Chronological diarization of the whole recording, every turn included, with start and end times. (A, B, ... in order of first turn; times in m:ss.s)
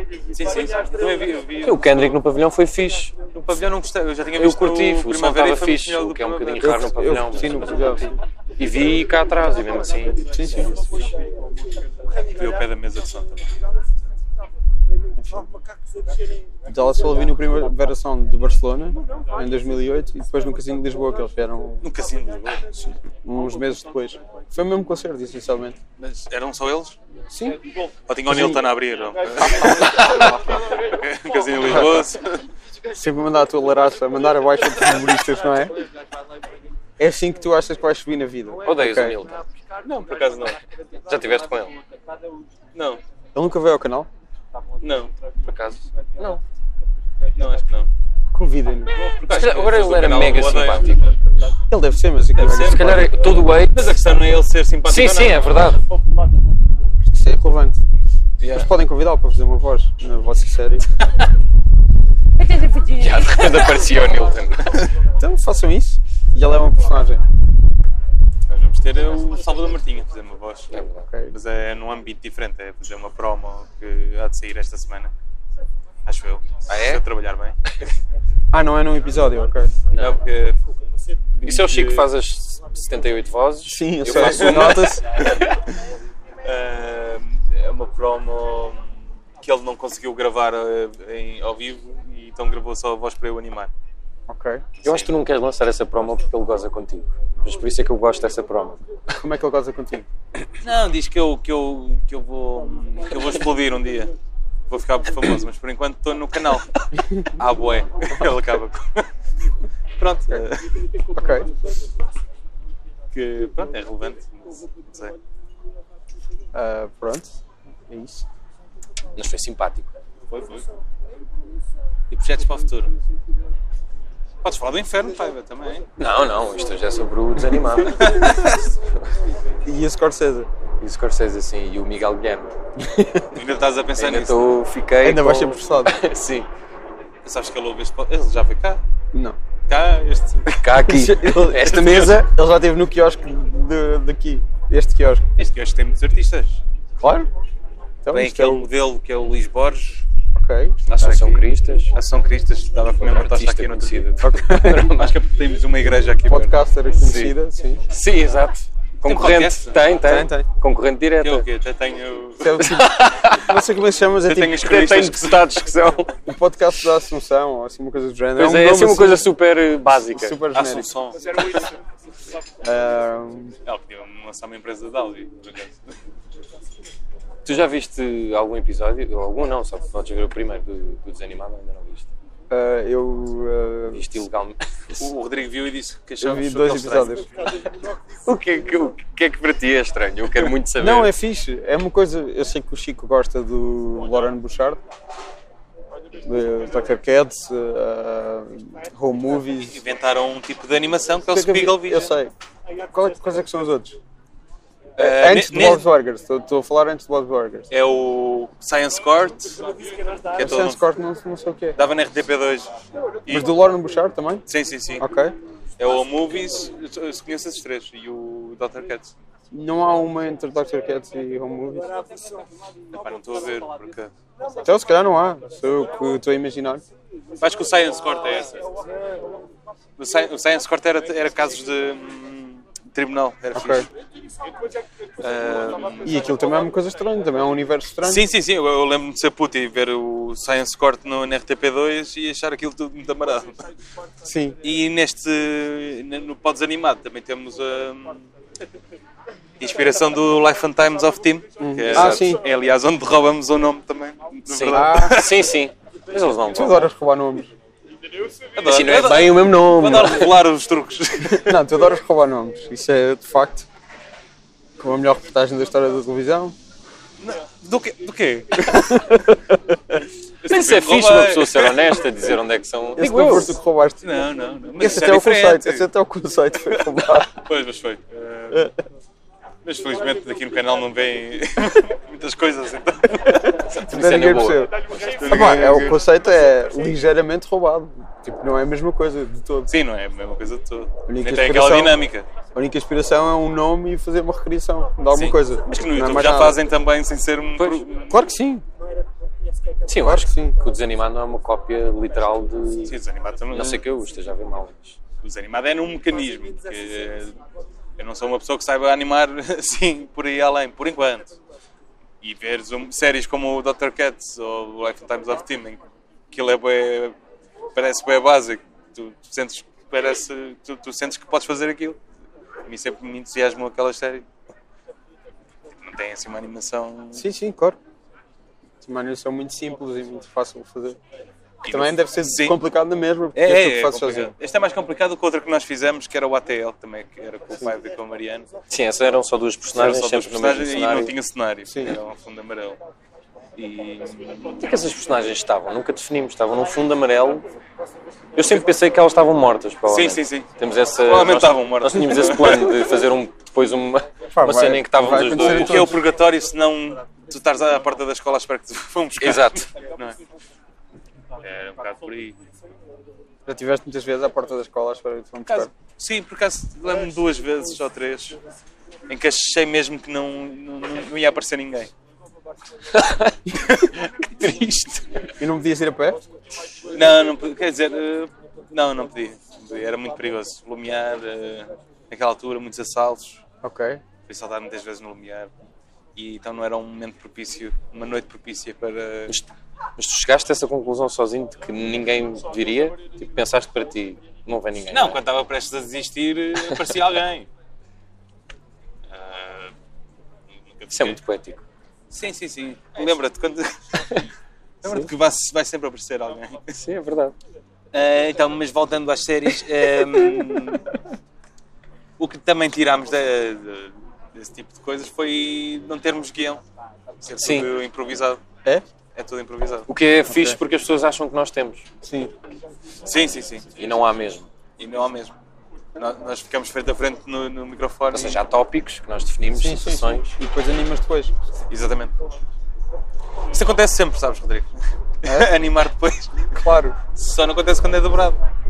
0:00.3-0:02.1 A
0:01.6-0:03.2 B
0:03.3-0:06.8 A
0:04.4-0:08.1 B
0:06.6-0:08.2 C
0:08.6-0:10.5 B
0:10.3-0:10.8 C
0:12.2-0:13.5 A
0:15.2-0:15.5 C
0:16.7-0:21.8 C
0:21.8-0:22.7 A
0:22.8-0:25.8 C
0:26.0-0:27.0 A
0:27.3-0:27.6 C
0:28.1-0:32.4 A
0:28.3-0:28.7 C
0:29.4-0:30.3 C
0:31.6-0:32.1 C
0:32.9-0:35.8 C
0:37.0-0:39.2 C
0:38.6-0:39.5 B
0:39.8-0:40.6 A
0:41.1-0:41.7 B
0:42.7-0:43.0 A
0:43.3-0:44.1 C
0:44.8-0:45.1 A
0:45.4-0:46.4 B
0:47.4-0:47.9 A
0:48.3-0:48.9 C
0:48.9-0:50.9 A
0:49.3-0:51.0 B
0:51.7-0:53.1 C
0:52.4-0:55.4 A
0:52.4-0:53.8 B
0:54.8-0:55.8 B
0:57.1-0:57.8 C
0:58.4-0:58.7 A
0:58.5-1:00.8 C
1:02.5-1:04.7 B
1:05.2-1:07.2 C
1:08.5-1:15.1 A
1:10.7-1:11.0 B
1:11.1-1:11.3 C
1:16.0-1:17.6 A
1:16.7-1:17.0 B
1:18.5-1:19.7 C
1:19.9-1:20.2 B
1:20.0-1:20.6 A
1:21.4-1:22.0 A
1:21.4-1:25.0 B
1:23.6-1:25.0 C
1:24.1-1:25.6 A
1:26.4-1:28.8 A
1:29.4-1:33.7 A
1:34.3-1:34.6 C
1:34.8-1:35.1 A
1:34.8-1:38.8 B
1:39.2-1:40.1 C
1:40.6-1:44.1 A
1:44.7-1:49.1 A
1:50.0-1:50.7 A
1:51.1-1:51.5 C
1:53.1-1:55.2 A
1:56.5-1:57.3 C
1:57.9-1:58.2 C
1:59.2-1:59.9 B
2:00.3-2:00.6 A
2:02.1-2:02.9 A
2:04.4-2:05.8 A
2:06.0-2:08.6 B
2:07.8-2:08.6 A
2:09.6-2:10.5 C
2:10.8-2:12.5 B
2:12.8-2:13.3 C
2:13.3-2:14.4 A
2:14.0-2:16.5 B
2:15.0-2:16.0 C
2:17.2-2:18.8 A
2:19.1-2:19.4 C
2:19.7-2:20.6 A
2:20.4-2:22.2 B
2:20.8-2:25.3 C
2:21.6-2:22.2 A
2:25.4-2:26.6 A
2:27.0-2:27.3 C
2:28.0-2:28.7 C
2:28.1-2:30.0 A
2:30.3-2:30.8 C
2:30.8-2:34.2 A
2:30.9-2:31.9 B
2:33.0-2:35.1 B
2:34.2-2:35.0 C
2:34.8-2:36.6 A
2:36.3-2:37.8 C
2:37.0-2:37.4 B
2:37.9-2:41.4 B
2:39.0-2:39.8 A
2:40.0-2:40.5 C
2:41.2-2:42.7 A
2:42.4-2:44.7 C
2:42.6-2:43.5 B
2:44.2-2:45.5 A
2:44.6-2:46.2 B
2:46.3-2:49.3 C
2:48.4-2:50.4 B
2:50.1-2:50.9 C
2:50.5-2:51.6 A
2:52.6-2:53.5 C
2:53.6-2:55.9 A
2:57.4-3:02.1 B
3:02.5-3:04.0 C
3:03.9-3:05.1 B
3:05.0-3:07.6 A
3:06.2-3:07.3 C
3:08.2-3:11.1 B
3:10.8-3:14.8 C
3:16.2-3:19.8 C
3:19.6-3:22.1 A
3:21.3-3:22.3 C
3:22.9-3:24.0 C
3:25.0-3:25.9 A
3:25.0-3:27.7 C
3:27.7-3:29.6 A
3:30.3-3:30.8 A
3:30.4-3:31.8 C
3:31.8-3:32.7 A
3:33.2-3:33.5 A
3:33.3-3:34.4 C
3:34.5-3:35.0 A
3:35.0-3:35.3 C
3:35.8-3:39.1 A
3:39.5-3:42.1 C
3:42.9-3:44.1 A
3:44.6-3:46.8 C
3:47.4-3:48.6 A
3:50.0-3:53.9 A
3:53.5-3:53.9 C
3:55.2-3:56.1 A
3:56.0-3:58.2 C
3:58.0-4:03.6 A
4:04.2-4:04.6 C
4:04.6-4:08.3 A
4:09.6-4:15.5 A
4:11.6-4:12.4 C
4:11.9-4:12.2 B
4:14.5-4:16.9 B
4:14.7-4:15.2 C
4:16.5-4:17.5 C
4:18.6-4:21.6 A
4:18.6-4:20.4 B
4:21.3-4:23.7 C
4:24.8-4:26.5 C
4:27.2-4:29.1 A
4:28.7-4:29.9 C
4:30.4-4:32.0 A
4:30.5-4:33.6 B
4:33.0-4:34.0 C
4:34.0-4:35.9 A
4:34.8-4:37.3 C
4:37.3-4:38.7 A
4:39.6-4:43.6 A
4:43.7-4:44.6 B
4:43.7-4:44.7 C
4:44.9-4:46.0 A
4:45.2-4:49.7 C
4:49.7-4:52.2 A
4:51.1-4:52.0 C
4:52.5-4:56.6 C
4:55.1-4:58.2 A
4:57.6-4:57.8 B
4:58.1-4:58.6 C
4:59.9-5:03.0 B
5:00.0-5:00.6 C
5:02.9-5:03.8 A
5:03.5-5:05.0 B
5:05.2-5:07.4 A
5:08.0-5:11.4 A
5:12.2-5:17.1 A
5:17.7-5:22.0 A
5:22.7-5:24.2 A
5:25.8-5:27.2 A
5:27.1-5:27.8 C
5:28.8-5:31.0 C
5:31.6-5:32.6 A
5:31.7-5:34.3 C
5:33.3-5:38.5 A
5:38.7-5:41.1 B
5:39.7-5:42.8 A
5:41.7-5:42.0 C
5:43.6-5:44.6 A
5:44.6-5:47.4 B
5:48.4-5:55.9 B
5:49.9-5:52.8 A
5:54.3-5:56.0 C
5:55.3-6:00.2 A
5:59.2-5:59.7 B
6:01.4-6:02.4 A
6:03.4-6:05.7 C
6:05.5-6:08.4 A
6:09.1-6:11.9 A
6:12.9-6:15.2 B
6:15.4-6:16.2 C
6:16.9-6:23.4 A
6:23.6-6:24.0 C
6:24.3-6:25.5 A
6:26.2-6:29.3 A
6:29.3-6:35.2 B
6:34.9-6:37.5 A
6:36.6-6:36.9 B
6:39.1-6:39.7 A
6:40.8-6:41.2 A
6:40.9-6:41.6 B
6:42.1-6:43.7 A
6:44.0-6:44.2 B
6:44.8-6:46.8 A
6:46.8-6:47.3 B
6:47.9-6:50.9 A
6:50.1-6:50.8 B
6:52.2-6:56.6 A
6:57.2-6:58.4 A
6:57.4-6:57.7 B
6:59.1-6:59.9 A
6:59.9-7:01.8 B
7:00.2-7:00.6 C
7:02.0-7:02.3 C
7:03.0-7:03.7 A
7:03.7-7:04.5 B
7:04.8-7:05.3 A
7:05.9-7:08.4 A
7:08.1-7:10.3 B
7:09.5-7:11.3 C
7:11.7-7:12.1 A
7:13.5-7:14.7 A
7:15.2-7:16.5 A
7:15.2-7:15.5 C
7:16.5-7:17.0 C
7:17.1-7:18.4 A